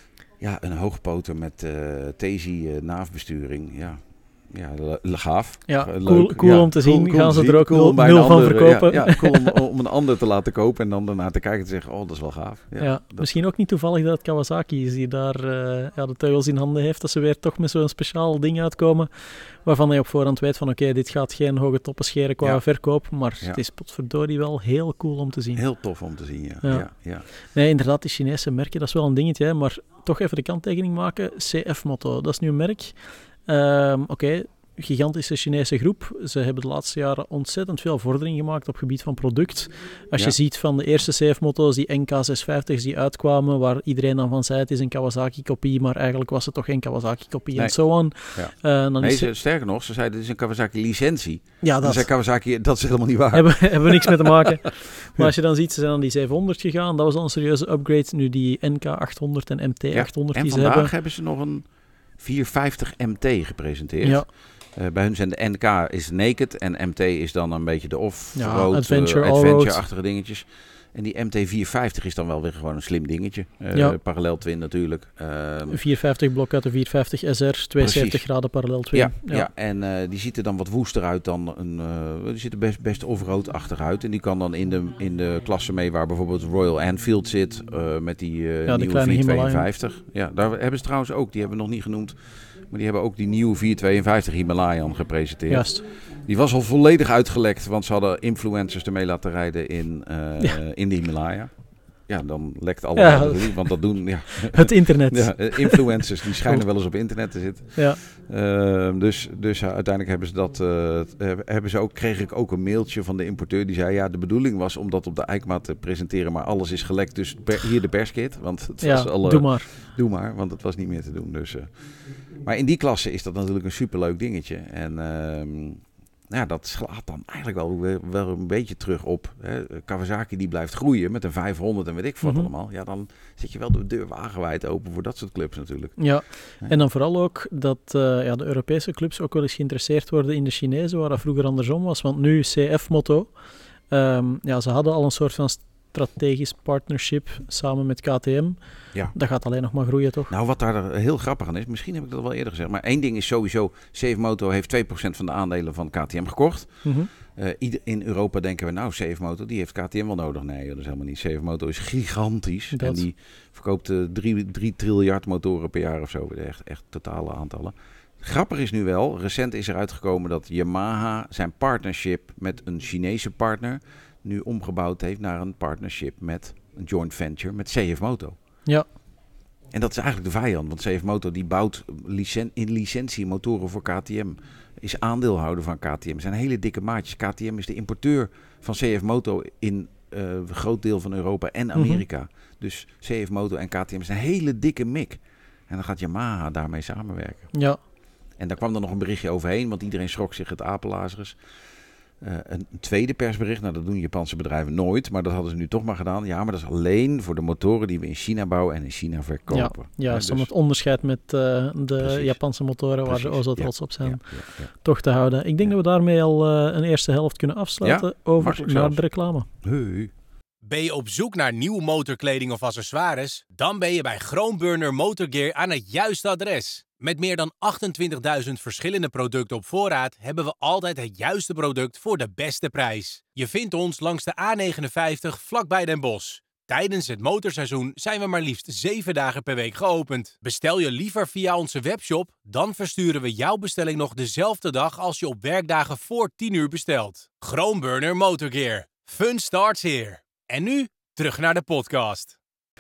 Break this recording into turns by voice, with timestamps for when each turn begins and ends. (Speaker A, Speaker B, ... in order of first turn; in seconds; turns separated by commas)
Speaker A: 0.4-13.3, Speaker B: 5.7-9.6, Speaker B: 12.8-25.7, Speaker A: 22.4-23.6, Speaker A: 25.5-27.3, Speaker B: 26.6-49.3, Speaker A: 47.5-54.2, Speaker B: 51.6-52.1, Speaker B: 53.3-60.9, Speaker A: 59.9-75.8, Speaker B: 64.0-64.3, Speaker B: 68.3-69.8, Speaker B: 75.7-79.5, Speaker A: 77.8-121.8, Speaker B: 88.7-89.7, Speaker B: 95.5-95.8, Speaker B: 103.0-106.7, Speaker B: 118.8-119.7, Speaker A: 122.4-136.7, Speaker B: 132.2-132.5, Speaker B: 136.0-143.3, Speaker B: 143.9-150.3, Speaker A: 150.3-178.4, Speaker B: 156.8-157.1, Speaker B: 162.7-163.1, Speaker A: 179.7-197.5, Speaker B: 191.8-192.0, Speaker B: 197.5-197.8, Speaker A: 198.4-201.4, Speaker A: 202.2-210.5, Speaker B: 209.5-214.2, Speaker A: 212.0-212.4, Speaker A: 213.1-214.7, Speaker B: 214.8-219.5, Speaker A: 217.8-219.0, Speaker A: 219.6-220.1, Speaker C: 220.7-252.3